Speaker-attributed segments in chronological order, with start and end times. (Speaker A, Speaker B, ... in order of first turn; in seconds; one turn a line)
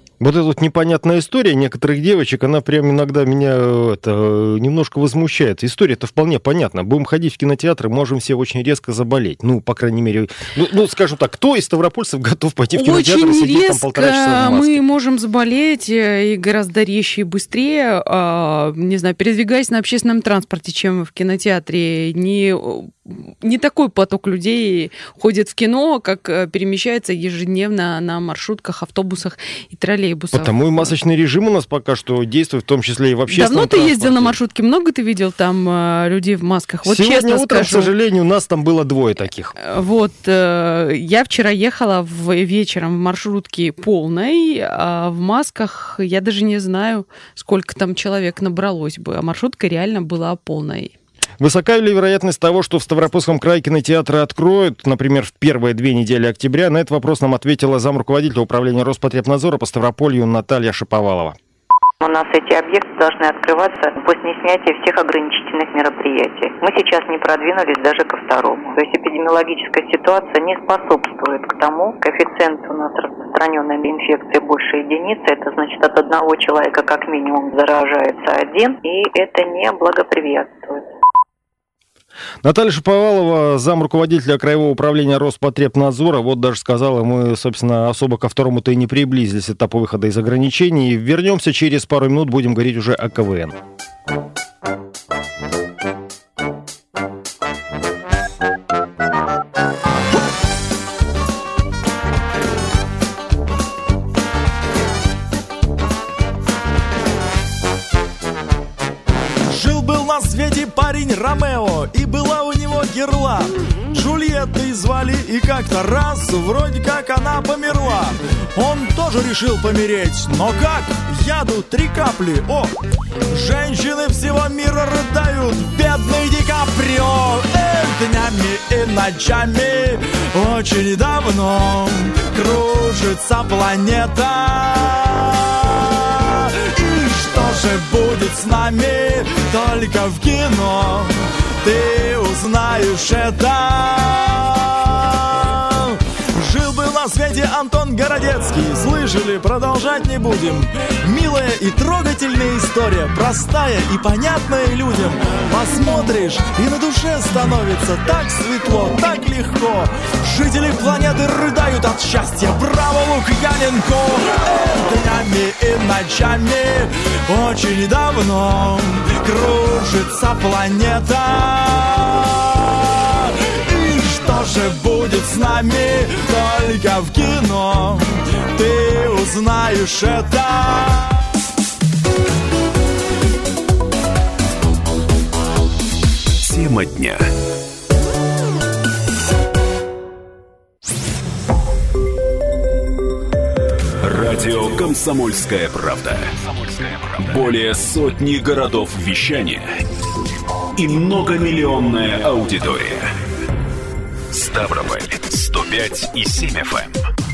Speaker A: 0.2-14.8
Speaker B: 12.7-30.9
Speaker A: 30.3-34.4
Speaker B: 33.3-37.9
Speaker A: 36.8-39.5
Speaker B: 39.6-50.9
Speaker A: 51.4-61.4
Speaker C: 62.0-80.8
Speaker A: 82.4-93.5
Speaker D: 109.5-122.7
Speaker D: 123.3-141.1
Speaker D: 141.6-181.2
Speaker E: 186.4-187.2
Speaker E: 194.0-199.7
Speaker E: 200.7-203.1
Speaker E: 204.3-206.9